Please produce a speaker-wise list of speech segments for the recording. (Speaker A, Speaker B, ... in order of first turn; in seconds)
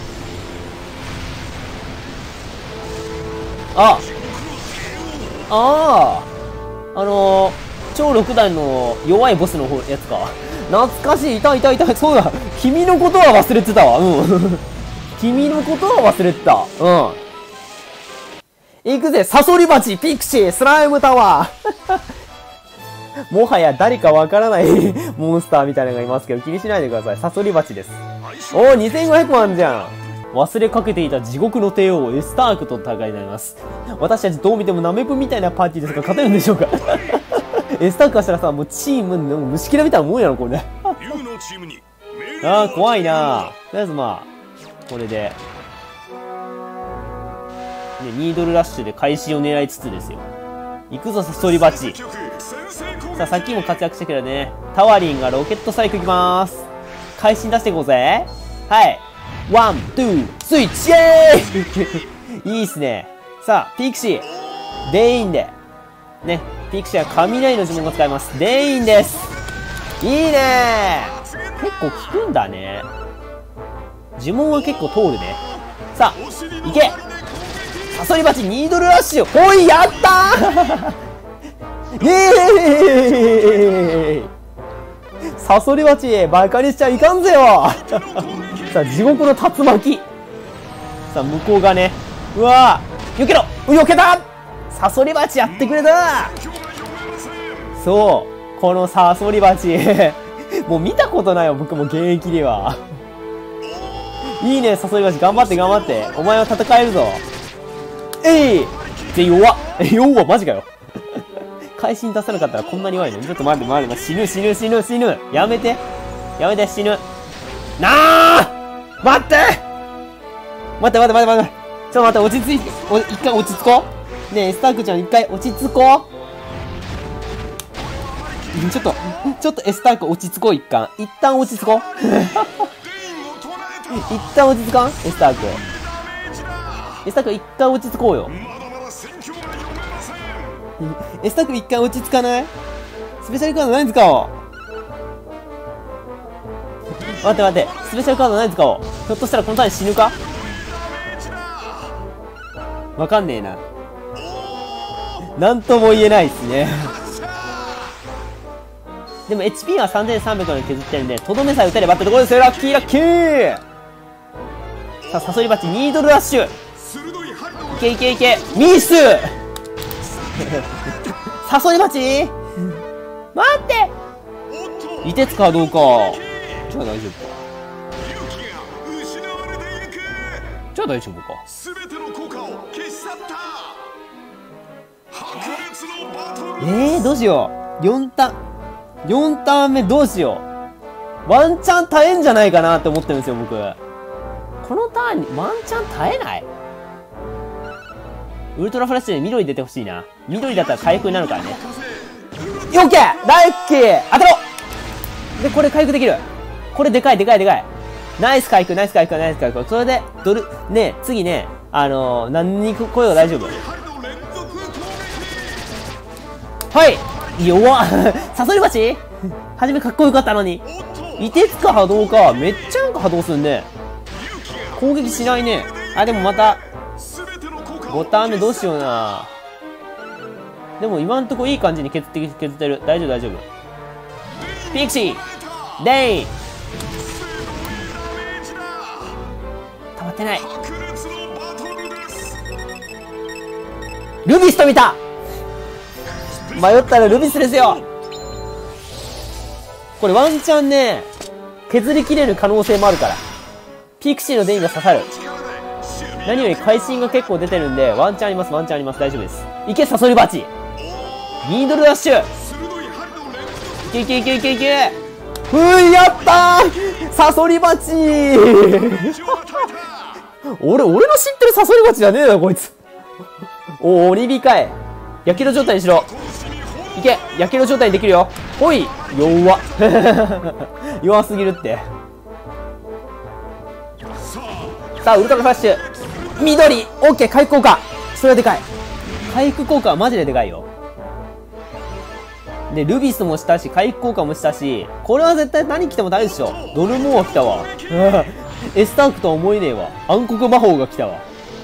Speaker A: 3.7-4.1, 5.5-6.3, 6.9-14.6, 15.2-17.2, 18.8-22.0, 23.3-40.9, 42.4-44.3, 44.9-45.4, 48.0-50.3, 50.9-52.0, 53.1-64.3, 64.8-65.5, 66.2-69.3, 70.0-72.9, 74.2-75.4, 75.9-77.0, 77.9-81.0, 81.9-84.3, 85.3-90.0, 91.1-96.4, 97.8-102.8, 104.2-107.2, 108.2-111.2, 111.8-115.8, 116.4-117.0, 117.8-119.6, 120.8-126.1, 128.5-132.7, 133.9-135.7, 137.0-138.3, 140.8-142.5, 143.2-144.3, 147.2-150.2, 153.0-153.6, 155.3-157.0, 159.3-163.6, 165.1-166.5, 167.7-169.4, 170.3-172.3, 173.3-173.9, 175.0-177.4, 180.7-181.4, 186.6-188.4, 189.0-190.4, 191.2-193.8, 194.6-196.5, 198.5-201.6, 202.7-204.4, 205.4-213.6, 216.7-219.0, 219.6-220.6, 221.2-223.7, 224.7-226.6, 227.9-229.3, 230.8-233.5, 234.7-235.2, 235.8-236.3, 239.9-240.5, 244.2-245.0, 246.5-247.8, 250.0-251.1, 251.7-253.2, 254.0-255.1, 256.2-260.5, 261.4-262.3, 263.8-269.5, 270.5-272.7, 273.8-276.1, 276.9-281.9, 285.0-285.8, 286.4-288.6, 289.3-290.7, 292.7-301.2
Speaker B: 4.3-5.3, 28.4-28.8, 41.0-43.5, 51.9-53.2, 76.3-77.8, 87.9-88.7, 96.4-97.7, 128.0-128.9, 132.8-134.0, 135.7-137.0, 138.4-140.6, 150.3-152.0, 154.2-155.1, 157.0-157.9, 166.8-168.1, 174.5-175.5, 178.0-180.5, 181.5-183.9, 185.1-186.6, 201.5-202.7, 213.4-215.7, 220.8-221.2, 224.3-224.7, 225.5-225.9, 227.0-228.2, 237.1-239.2, 240.5-242.3, 255.3-256.3, 262.4-263.8, 269.1-270.2, 276.1-277.0, 296.6-297.8